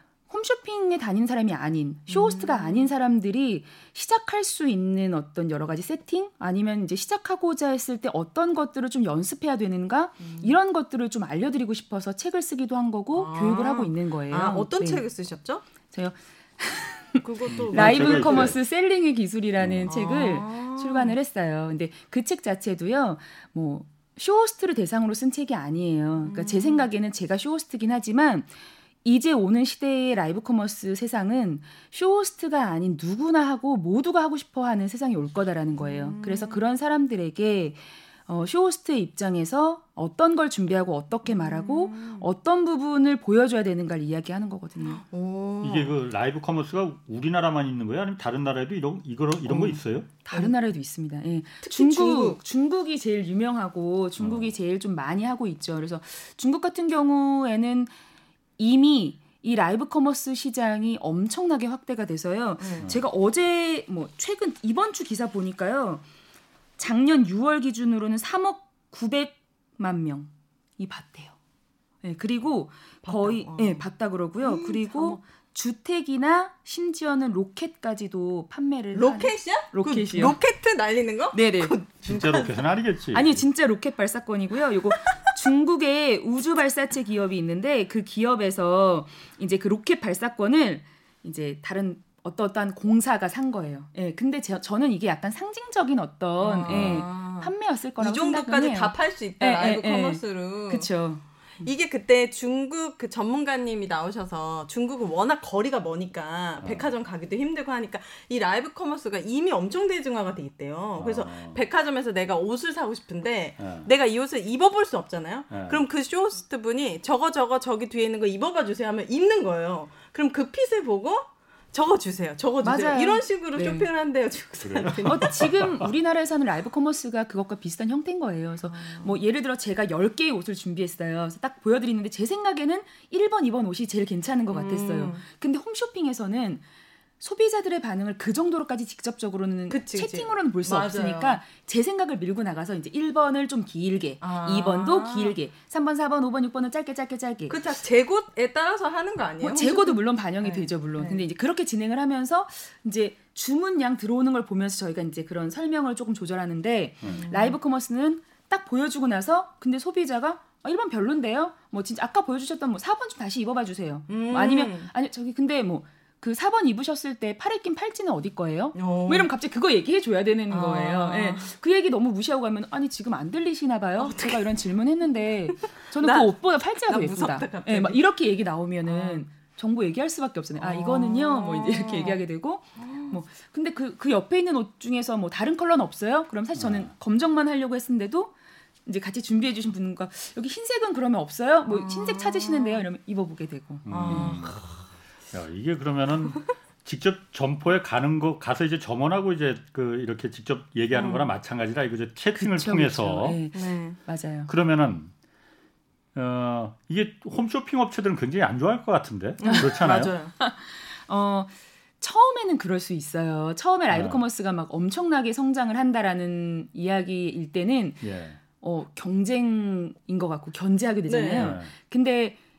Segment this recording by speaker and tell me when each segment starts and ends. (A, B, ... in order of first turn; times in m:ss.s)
0:00.3-0:15.0 A
0:02.1-0:02.9 B
0:10.2-0:10.5 B
0:13.1-0:15.6 B
0:15.9-0:28.5 A
0:17.2-0:18.5 B
0:17.4-0:18.6 C
0:19.6-0:19.9 C
0:19.9-0:21.2 B
0:26.2-0:26.9 B
0:29.0-0:45.0 A
0:35.8-0:36.6 B
0:41.2-0:42.2 B
0:44.8-0:45.9 B
0:45.6-0:50.1 C
0:49.5-0:57.9 A
0:51.6-0:52.4 B
0:54.2-0:54.5 C
0:58.6-1:06.0 A
1:02.6-1:02.9 B
1:06.8-1:11.3 A
1:12.0-1:20.4 A
1:13.0-1:13.8 B
1:14.4-1:15.2 B
1:18.9-1:22.6 B
1:21.3-1:21.8 A
1:22.0-1:23.4 C
1:23.1-1:41.2 A
1:36.4-1:40.9 B
1:36.7-1:37.0 C
1:41.6-2:05.5 B
1:51.0-1:51.6 C
1:53.6-1:53.9 C
1:55.5-1:55.8 C
2:02.6-2:03.9 A
2:04.6-2:05.9 C
2:05.0-2:16.6 A
2:08.6-2:09.1 B
2:14.5-2:15.2 B
2:17.2-2:27.6 A
2:19.7-2:21.4 B
2:24.2-2:25.4 B
2:27.5-2:31.2 B
2:29.4-3:08.3 A
2:37.0-2:37.6 B
2:44.1-2:44.9 B
2:48.7-2:49.3 B
2:50.5-2:51.5 B
2:54.0-2:54.5 B
2:56.0-2:58.0 B
2:58.8-2:59.2 B
3:00.6-3:02.2 B
3:02.8-3:03.2 B
3:06.5-3:06.9 C
3:08.8-3:14.4 A
3:11.6-3:12.8 B
3:13.8-3:14.6 C
3:13.9-3:14.7 B
3:15.3-3:23.4 C
3:20.9-3:21.3 B
3:22.3-3:24.5 A
3:23.5-3:24.0 B
3:24.5-3:25.1 C
3:26.1-3:30.1 C
3:29.4-3:30.3 B
3:29.4-3:29.8 A
3:30.4-3:38.0 A
3:33.9-3:34.2 C
3:38.0-3:38.4 C
3:38.6-3:42.4 A
3:41.1-3:41.6 B
3:41.3-3:41.7 C